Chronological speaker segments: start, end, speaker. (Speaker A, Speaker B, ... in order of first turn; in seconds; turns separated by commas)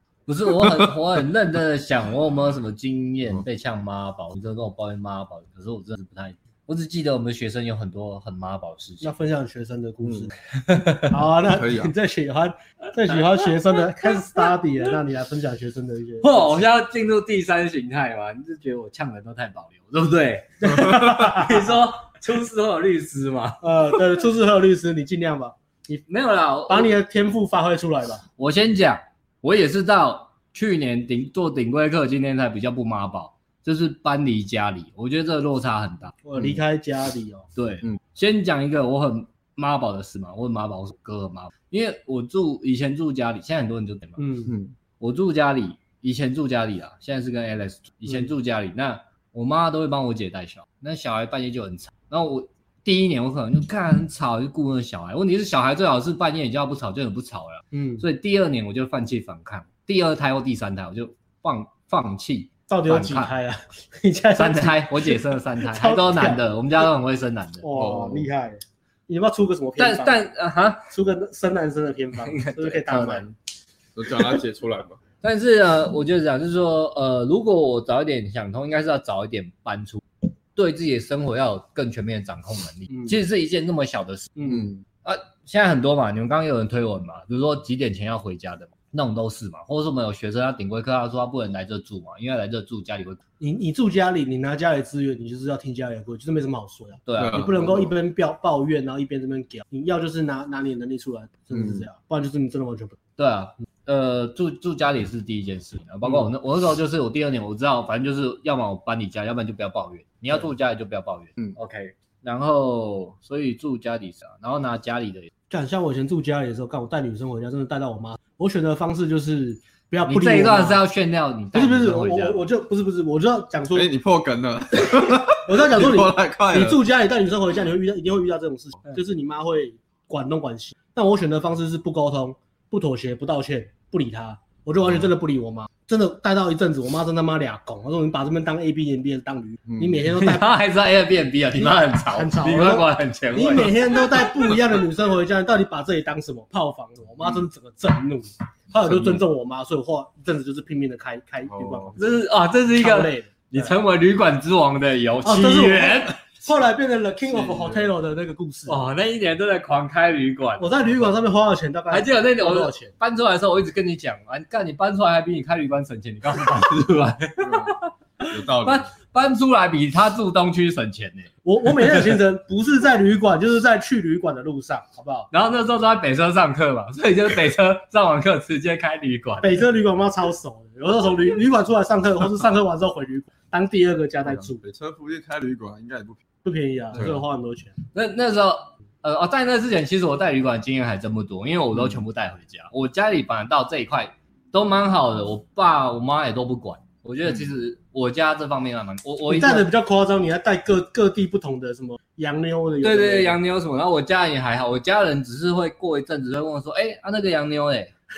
Speaker A: 0.3-9.1, Speaker B: 9.0-10.3, Speaker A: 10.6-11.1, Speaker B: 11.1-16.4, Speaker C: 11.5-11.9, Speaker A: 16.2-23.6, Speaker B: 20.7-21.6, Speaker B: 23.6-26.0, Speaker A: 26.1-26.9, Speaker B: 26.7-28.2, Speaker A: 28.4-36.2, Speaker B: 36.2-37.5, Speaker A: 37.5-44.3, Speaker B: 44.2-44.5, Speaker C: 44.5-44.8, Speaker A: 45.0-63.3, Speaker B: 57.7-58.0, Speaker B: 62.7-66.4, Speaker A: 64.3-67.7, Speaker B: 67.6-70.3, Speaker C: 67.7-68.3, Speaker A: 69.8-70.9, Speaker B: 70.9-73.2, Speaker A: 72.2-73.3, Speaker C: 74.0-75.0, Speaker A: 75.2-80.0, Speaker A: 80.5-84.3, Speaker B: 84.4-84.7, Speaker C: 84.5-84.8, Speaker A: 85.0-93.2, Speaker B: 93.4-103.0, Speaker A: 97.1-97.4, Speaker C: 97.2-97.9, Speaker C: 101.5-101.8, Speaker A: 103.2-115.3, Speaker B: 115.5-120.8, Speaker A: 120.1-122.4, Speaker B: 121.5-123.9, Speaker C: 123.8-126.8, Speaker B: 124.8-140.5, Speaker C: 139.7-140.0, Speaker A: 140.1-143.8, Speaker B: 141.6-152.2, Speaker C: 148.9-149.2, Speaker C: 151.5-152.0, Speaker A: 152.0-156.2, Speaker B: 152.8-153.8, Speaker B: 155.2-158.9, Speaker C: 157.3-157.9, Speaker A: 158.7-160.7, Speaker B: 160.6-162.9, Speaker A: 161.9-171.3, Speaker C: 167.4-168.9, Speaker B: 171.4-175.3, Speaker A: 175.3-179.5, Speaker B: 179.4-184.6, Speaker C: 184.2-186.2, Speaker B: 186.4-187.8, Speaker C: 186.9-187.2, Speaker A: 187.9-199.7, Speaker B: 199.3-203.4, Speaker A: 202.8-207.9